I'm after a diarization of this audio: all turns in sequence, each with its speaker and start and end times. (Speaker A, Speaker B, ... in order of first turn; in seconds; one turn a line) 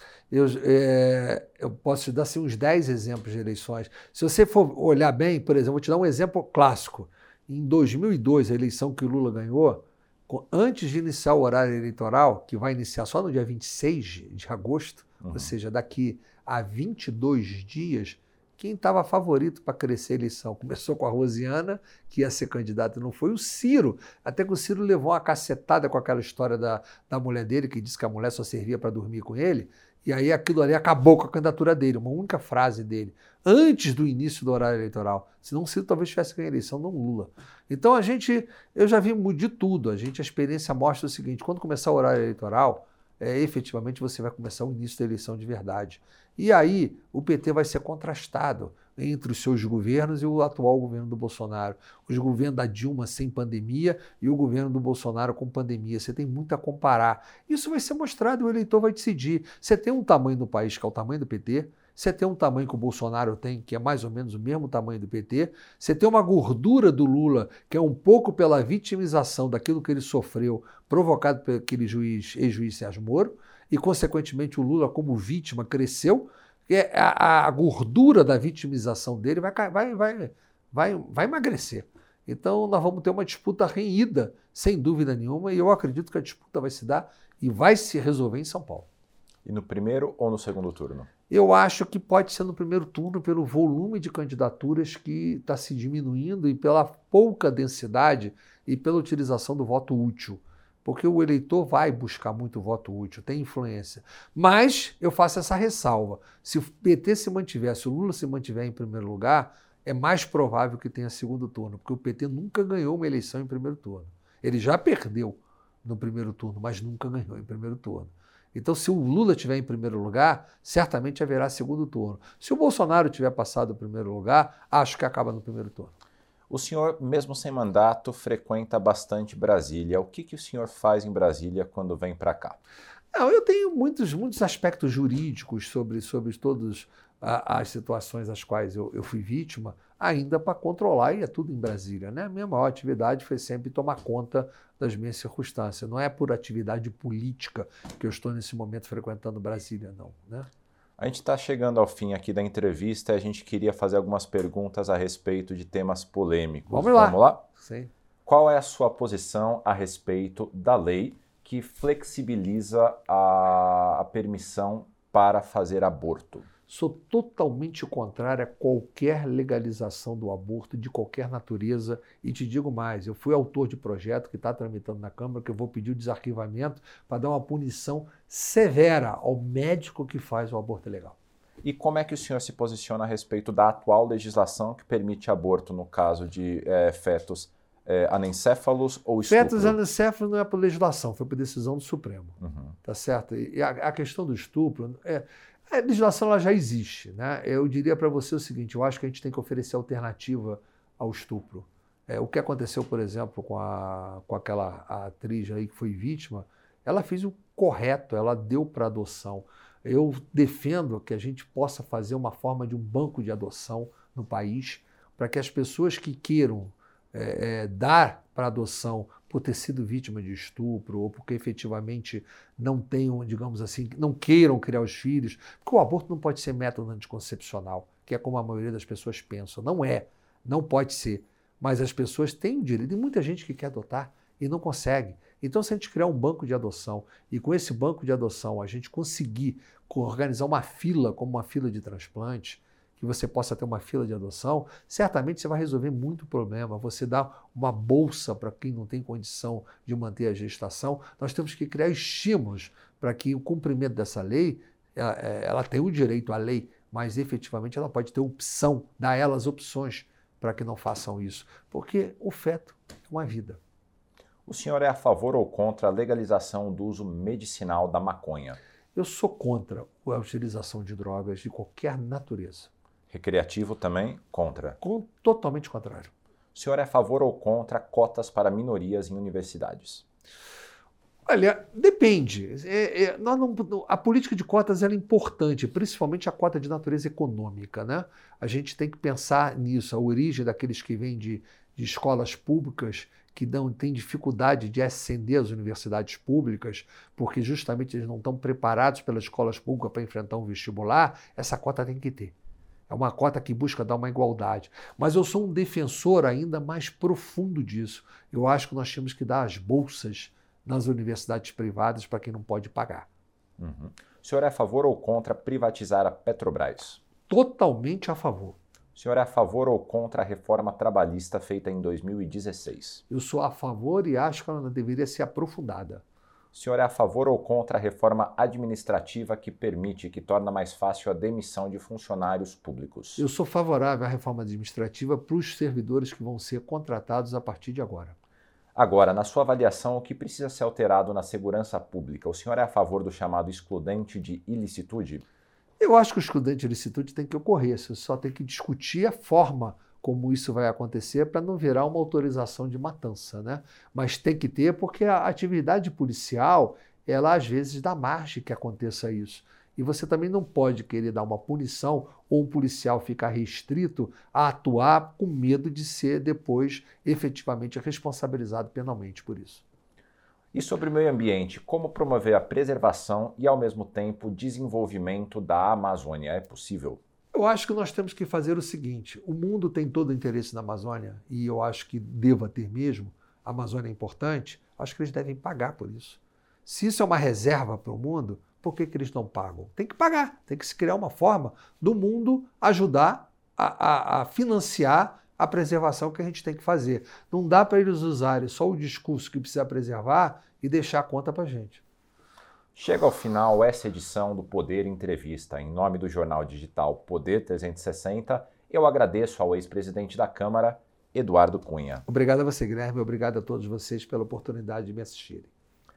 Speaker A: 0.3-88.9
Speaker B: 15.2-15.5
Speaker B: 89.5-91.1
Speaker A: 91.3-125.9
Speaker B: 126.5-132.6
Speaker A: 133.1-150.5
Speaker B: 151.0-157.4
Speaker A: 156.7-157.9
Speaker B: 158.3-166.5
Speaker A: 166.7-181.2
Speaker B: 181.6-189.8
Speaker A: 189.3-263.6
Speaker B: 192.4-192.8
Speaker B: 264.5-268.6
Speaker A: 268.9-272.7
Speaker B: 273.1-274.8
Speaker A: 274.8-276.1
Speaker B: 276.5-280.0
Speaker A: 281.3-302.3
Speaker A: 302.9-313.1
Speaker B: 313.6-317.0
Speaker A: 317.3-318.6
Speaker B: 318.9-323.0
Speaker A: 323.1-326.0
Speaker B: 326.5-333.2
Speaker A: 333.2-338.2
Speaker B: 338.8-345.2
Speaker A: 345.8-369.6
Speaker B: 370.5-377.0
Speaker A: 377.3-401.8
Speaker B: 402.8-412.1
Speaker A: 412.1-415.5